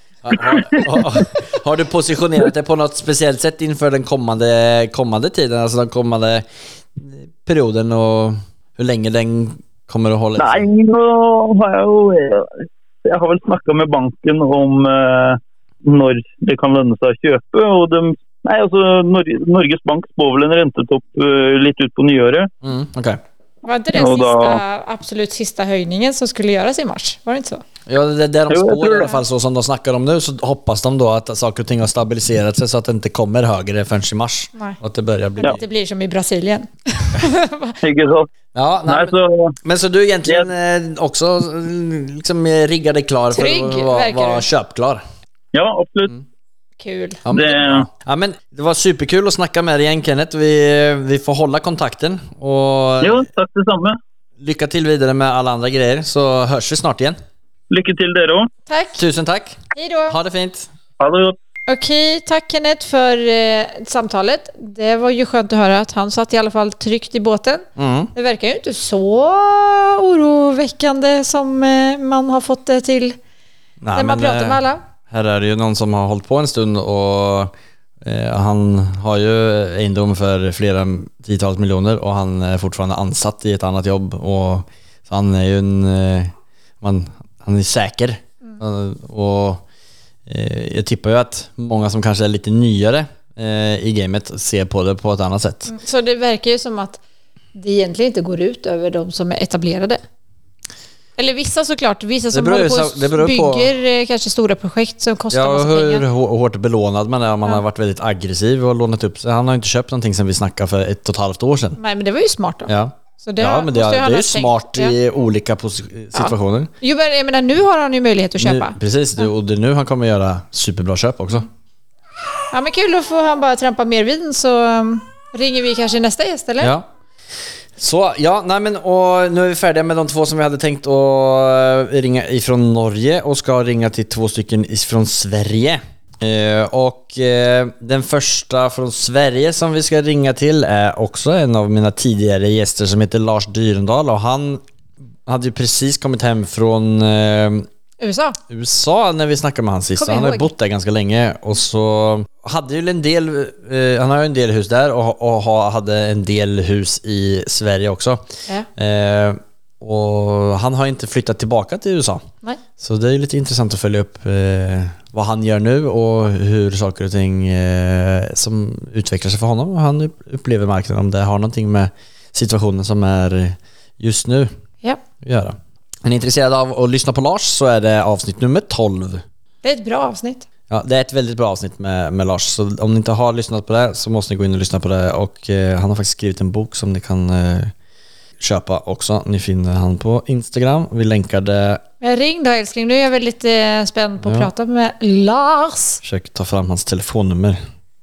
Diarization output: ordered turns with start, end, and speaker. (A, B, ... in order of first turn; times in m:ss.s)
0:00.2-0:10.7 A
0:10.4-0:22.5 B
0:22.6-0:23.2 A
0:23.6-0:27.6 C
0:23.9-0:24.6 B
0:27.9-0:35.6 A
0:28.5-0:29.1 B
0:35.4-0:37.7 C
0:37.8-0:38.3 B
0:38.5-0:45.0 A
0:38.8-0:39.5 B
0:43.3-0:44.4 C
0:45.5-0:46.1 B
0:46.8-0:47.2 C
0:47.2-0:53.3 A
0:47.3-0:47.8 B
0:53.0-0:54.0 B
0:54.4-0:57.2 A
0:57.7-0:58.5 B
0:58.7-0:59.0 C
0:58.9-1:00.7 A
0:59.7-1:00.2 C
1:01.0-1:01.4 B
1:01.7-1:13.2 C
1:07.8-1:08.1 A
1:13.8-1:29.6 A
1:13.9-1:14.8 C
1:30.3-1:35.7 A
1:35.7-1:37.0 C
1:37.5-1:40.0 C
1:41.2-1:46.0 C
1:42.3-1:43.7 A
1:45.3-1:51.8 A
1:51.8-1:54.9 C
1:52.7-1:56.7 A
1:56.1-1:59.2 C
1:58.4-2:01.4 A
2:02.5-2:06.7 C
2:06.6-2:06.9 A
2:07.8-2:24.6 A
2:25.2-2:27.7 A
2:28.0-2:28.4 C
2:28.5-2:38.2 A
2:30.0-2:30.5 C
2:38.8-2:42.2 A
2:42.8-2:54.5 A
2:55.2-2:59.2 A
2:59.6-3:00.4 C
3:00.7-3:07.7 A
3:08.4-3:11.8 A
3:12.0-3:16.0 C
3:14.2-3:14.5 A
3:16.0-3:17.6 A